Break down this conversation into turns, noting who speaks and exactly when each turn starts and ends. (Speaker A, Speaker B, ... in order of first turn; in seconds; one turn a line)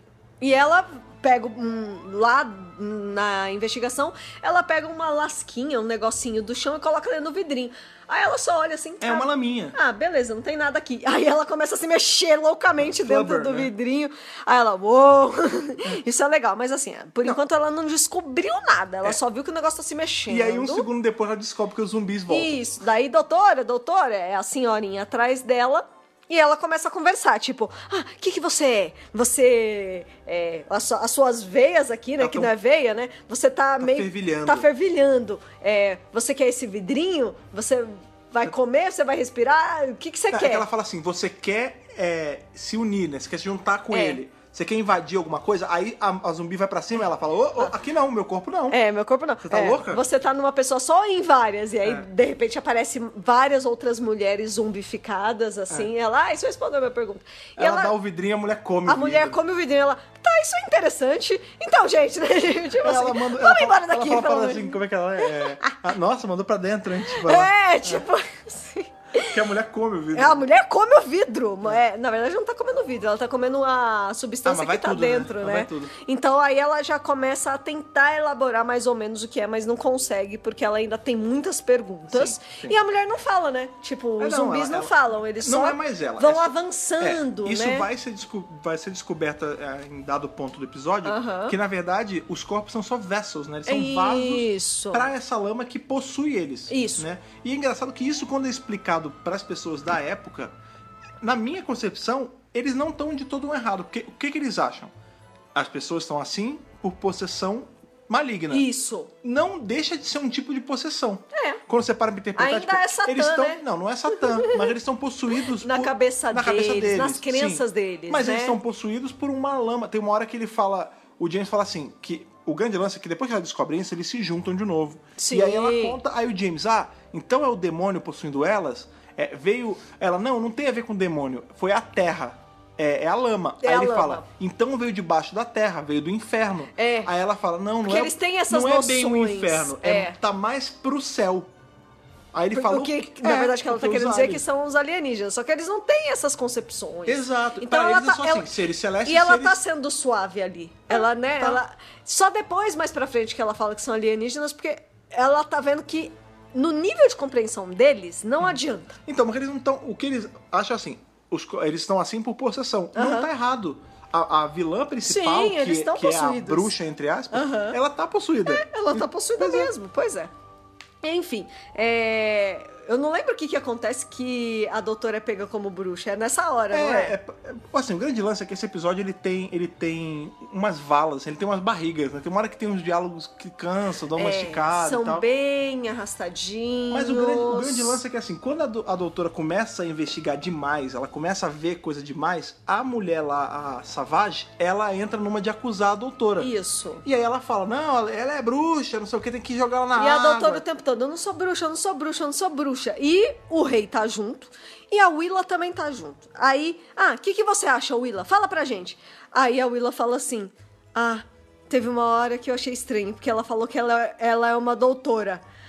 Speaker A: 0.4-20.9
Speaker B: 9.0-9.8
Speaker B: 12.8-13.7
Speaker B: 20.3-22.6
Speaker A: 22.3-40.7
Speaker B: 32.2-32.5
Speaker B: 33.8-34.7
Speaker B: 40.3-48.8
Speaker A: 43.9-44.2
Speaker A: 48.7-57.9
Speaker B: 49.4-50.0
Speaker B: 57.6-59.4
Speaker A: 58.9-65.8
Speaker B: 62.8-68.0
Speaker A: 67.1-69.4
Speaker B: 69.2-70.4
Speaker A: 70.1-87.9
Speaker B: 74.5-76.0
Speaker B: 82.1-82.8
Speaker B: 84.2-100.5
Speaker A: 91.0-91.6
Speaker A: 93.7-95.1
Speaker A: 96.7-97.0
Speaker B: 101.2-104.9
Speaker B: 105.5-108.7
Speaker A: 108.5-109.1
Speaker B: 109.2-141.5
Speaker A: 111.3-111.6
Speaker A: 112.4-113.6
Speaker A: 114.2-114.7
Speaker A: 115.5-118.6
Speaker A: 125.2-126.0
Speaker A: 133.6-134.3
Speaker A: 136.8-137.1
Speaker A: 137.8-140.2
Speaker B: 142.3-144.4
Speaker A: 142.5-148.5
Speaker B: 147.1-149.6
Speaker A: 149.1-159.0
Speaker B: 150.9-151.6
Speaker B: 158.4-169.7
Speaker A: 162.9-163.3
Speaker A: 165.0-166.7
Speaker A: 167.3-167.8
Speaker A: 168.5-170.3
Speaker A: 171.0-177.2
Speaker B: 176.7-185.2
Speaker A: 184.2-188.0
Speaker B: 186.9-196.5
Speaker A: 196.4-197.1
Speaker B: 197.0-200.7
Speaker A: 200.0-215.4